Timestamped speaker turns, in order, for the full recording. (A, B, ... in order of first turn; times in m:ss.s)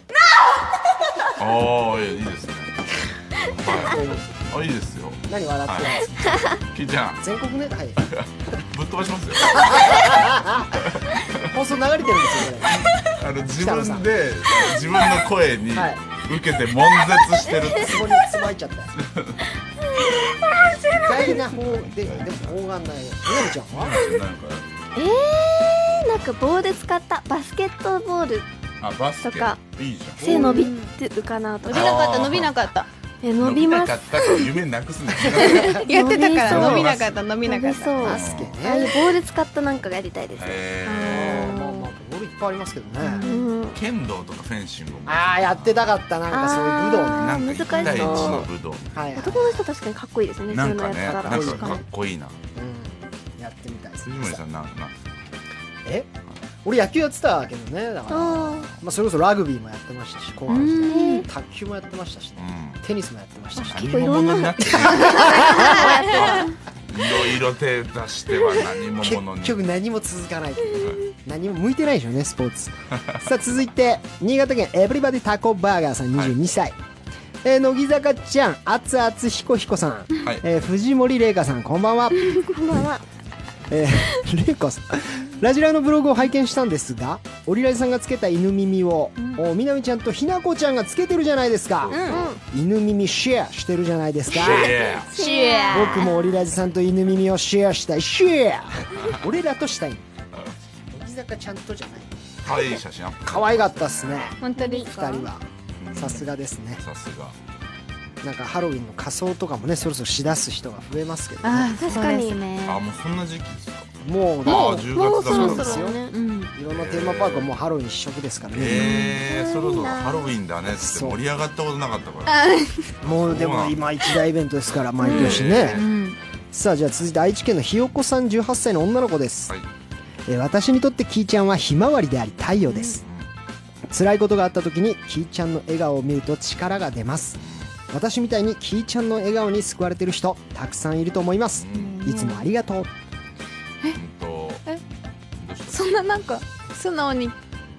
0:01.4-0:02.7 A
0:03.5-0:07.2 A
0:03.8-0:04.2 B
0:05.3-0:06.5 B
0:07.2-0:08.0 B
0:08.0-0:10.2 A
0:09.4-0:12.9 B
0:10.8-0:11.6 A
0:12.6-0:18.2 A
0:13.6-0:14.1 B
0:15.7-0:16.0 B
0:17.8-0:18.9 B
0:19.0-0:19.4 A
0:20.0-0:21.3 C
0:21.0-0:24.0 B
0:21.5-0:22.6 A
0:23.3-0:24.7 A
0:25.0-0:28.5 C
0:28.8-0:30.2 A
0:29.2-0:29.6 C
0:30.2-0:30.7 B
0:30.2-0:32.0 C
0:30.2-0:30.9 D
0:31.7-0:32.9 D
0:31.7-0:32.5 A
0:33.2-0:34.0 C
0:33.4-0:35.9 A
0:35.3-0:35.8 B
0:35.4-0:38.0 D
0:35.9-0:36.9 C
0:36.4-0:37.1 A
0:37.4-0:40.6 C
0:38.0-0:39.0 B
0:38.0-0:38.5 A
0:40.4-0:41.6 A
0:40.9-0:41.9 D
0:41.1-0:43.2 B
0:43.0-0:43.5 D
0:43.2-0:43.8 C
0:43.7-0:45.8 A
0:45.1-0:47.4 B
0:46.3-0:48.5 C
0:47.2-0:49.1 A
0:47.5-0:48.2 D
0:48.9-0:49.7 B
0:49.2-0:51.6 C
0:50.5-0:52.4 A
0:51.0-0:51.8 B
0:52.6-0:54.4 B
0:54.0-0:55.0 A
0:56.6-1:04.1 B
0:58.1-0:58.7 C
1:00.5-1:00.8 A
1:00.5-1:01.2 D
1:00.9-1:01.3 C
1:02.4-1:02.8 A
1:03.6-1:06.5 C
1:03.6-1:09.6 A
1:04.6-1:06.0 B
1:05.4-1:06.5 D
1:09.0-1:16.8 B
1:10.8-1:11.0 A
1:17.4-1:22.5 B
1:22.5-1:23.0 C
1:23.7-1:34.8 B
1:29.2-1:29.4 D
1:31.8-1:32.3 A
1:31.9-1:32.2 D
1:32.1-1:32.4 C
1:34.3-1:35.2 A
1:34.4-1:36.2 C
1:35.1-1:36.3 D
1:35.7-1:40.0 B
1:39.0-1:39.2 A
1:40.9-1:46.8 B
1:42.4-1:44.4 A
1:44.4-1:45.3 D
1:44.6-1:44.9 C
1:45.8-1:47.4 A
1:48.2-1:51.8 B
1:51.4-1:52.8 D
1:51.8-1:52.4 C
1:52.6-1:53.9 A
1:54.0-1:56.0 B
1:54.4-1:55.9 A
1:54.5-1:56.1 C
1:54.5-1:56.5 D
1:56.6-1:59.0 B
1:56.7-1:57.5 A
1:58.5-2:02.4 A
1:58.7-1:59.2 D
1:59.3-2:00.3 C
2:00.7-2:01.2 B
2:02.3-2:02.9 D
2:03.0-2:03.9 A
2:03.0-2:05.9 B
2:05.0-2:05.4 C
2:05.1-2:06.2 D
2:05.1-2:05.9 A
2:06.5-2:09.5 B
2:10.3-2:13.0 B
2:12.7-2:13.0 D
2:13.9-2:22.9 B
2:17.4-2:17.7 A
2:21.6-2:22.0 A
2:21.7-2:22.5 D
2:23.9-2:24.6 A
2:25.4-2:26.1 A
2:25.7-2:27.4 D